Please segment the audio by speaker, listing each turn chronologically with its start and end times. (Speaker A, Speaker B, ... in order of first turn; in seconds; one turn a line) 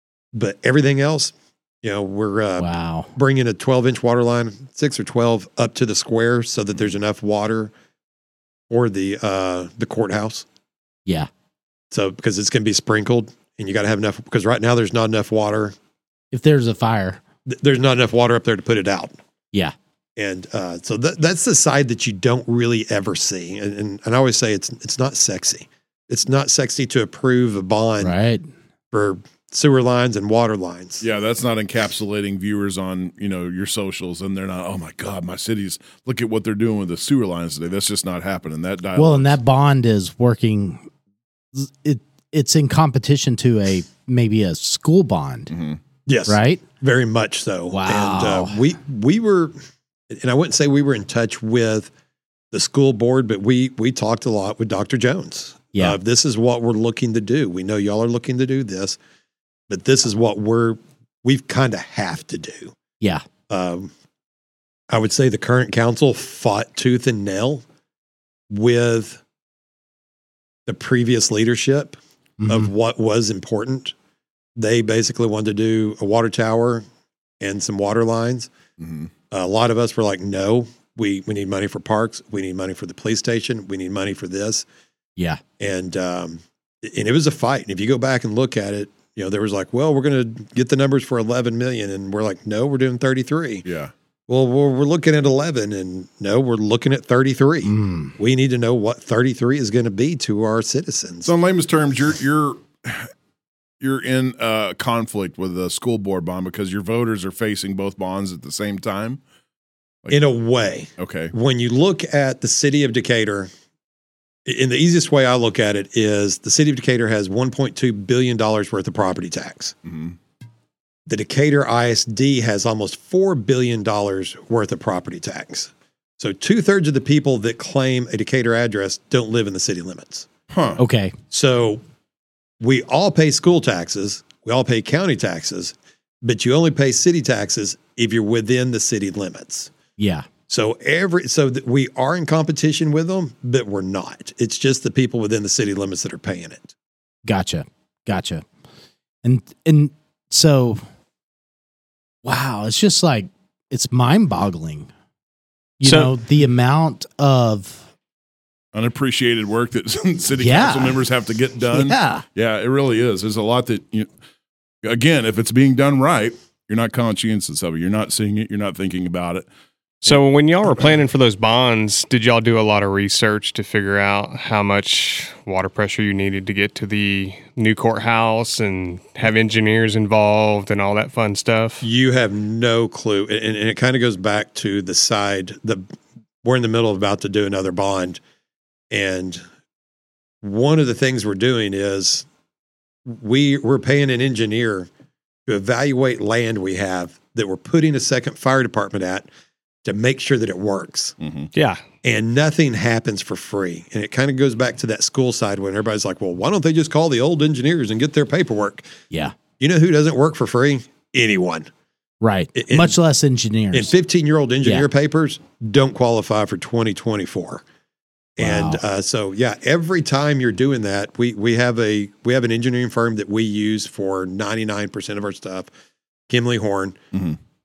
Speaker A: 0.3-7.7
Speaker B: 2.6-3.1
Speaker A: 8.7-10.4
Speaker A: 11.9-15.7
Speaker B: 16.3-17.2
Speaker A: 17.5-19.1
Speaker A: 20.2-28.1
Speaker B: 28.0-28.4
Speaker A: 28.9-31.0
Speaker C: 31.0-39.4
Speaker B: 39.0-40.9
Speaker B: 41.5-45.5
Speaker C: 45.5-45.8
Speaker A: 46.1-49.5
Speaker B: 46.3-46.6
Speaker B: 47.7-48.6
Speaker A: 50.1-51.9
Speaker A: 52.5-59.0
Speaker A: 59.7-62.7
Speaker A: 63.5-63.9
Speaker A: 64.9-67.6
Speaker A: 68.5-69.2
Speaker A: 70.7-73.9
Speaker B: 72.4-72.7
Speaker A: 74.5-76.8
Speaker A: 77.4-78.5
Speaker C: 78.8-79.1
Speaker A: 79.3-84.6
Speaker B: 85.2-85.4
Speaker A: 85.6-93.7
Speaker C: 93.6-93.9
Speaker A: 94.3-101.3
Speaker B: 97.6-98.1
Speaker C: 101.2-103.1
Speaker C: 103.8-109.2
Speaker A: 110.1-113.5
Speaker C: 111.0-111.3
Speaker A: 114.5-119.7
Speaker C: 119.8-120.2
Speaker A: 121.1-130.3
Speaker C: 130.5-130.8
Speaker B: 130.8-131.2
Speaker A: 131.3-131.8
Speaker A: 132.6-139.7
Speaker B: 140.0-140.3
Speaker A: 140.5-146.7
Speaker B: 147.2-148.4
Speaker B: 149.2-150.8
Speaker B: 152.2-154.9
Speaker B: 155.8-157.8
Speaker D: 155.8-156.1
Speaker C: 158.7-164.1
Speaker B: 160.4-161.0
Speaker B: 161.7-162.2
Speaker C: 164.8-169.5
Speaker D: 170.0-181.8
Speaker A: 181.8-185.8
Speaker A: 186.4-188.2
Speaker A: 188.9-189.4
Speaker A: 190.4-192.2
Speaker A: 193.1-194.9
Speaker A: 195.5-199.3
Speaker A: 199.8-201.2
Speaker C: 201.2-201.5
Speaker D: 201.5-201.8
Speaker A: 202.0-208.9
Speaker A: 209.6-211.7
Speaker B: 212.2-213.9
Speaker A: 212.5-212.9
Speaker A: 213.7-217.6
Speaker A: 218.4-225.7
Speaker B: 218.4-218.8
Speaker A: 226.3-227.0
Speaker C: 227.1-227.4